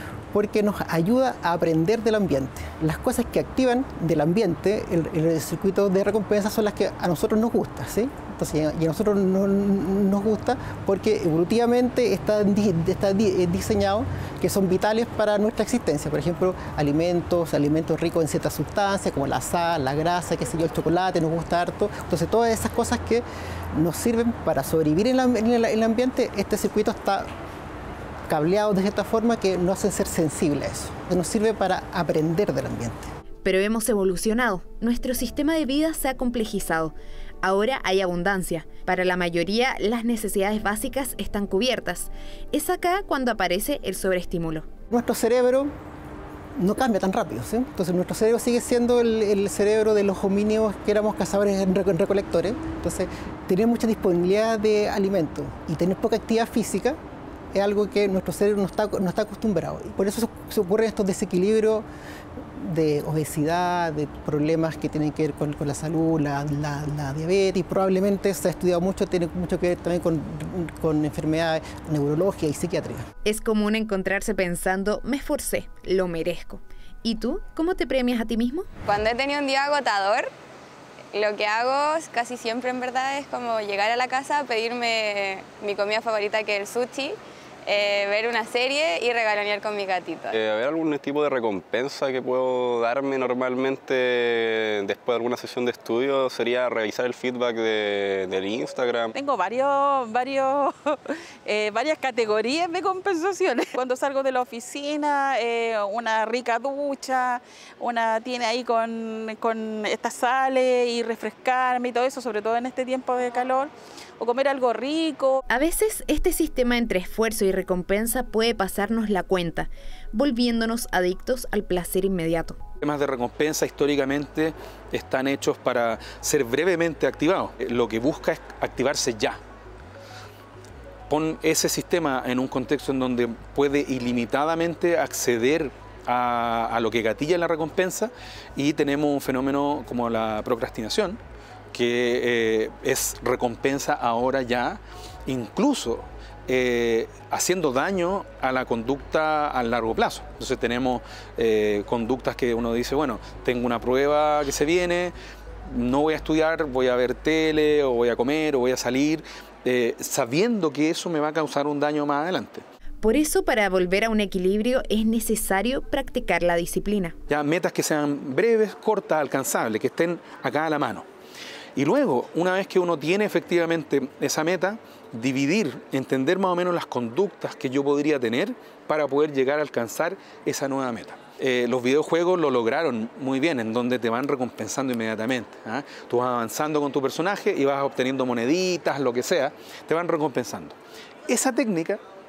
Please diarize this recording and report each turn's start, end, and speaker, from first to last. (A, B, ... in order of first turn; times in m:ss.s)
0:00.3-0:27.3 A
0:28.3-0:33.1 A
0:33.4-0:44.7 B
0:44.9-0:45.7 A
0:46.6-0:57.0 A
0:57.5-1:01.8 A
1:02.6-1:13.0 A
1:13.3-1:18.7 B
1:18.9-1:20.3 C
1:21.1-1:30.4 C
1:30.3-1:39.1 D
1:39.2-1:55.4 E
1:55.5-2:02.6 B
2:02.8-2:09.4 F
2:11.1-2:21.2 F
2:21.7-2:35.1 F
2:35.7-2:42.6 F
2:43.0-2:47.2 B
2:47.3-2:51.0 F
2:51.8-3:10.8 F
3:11.3-3:12.0 F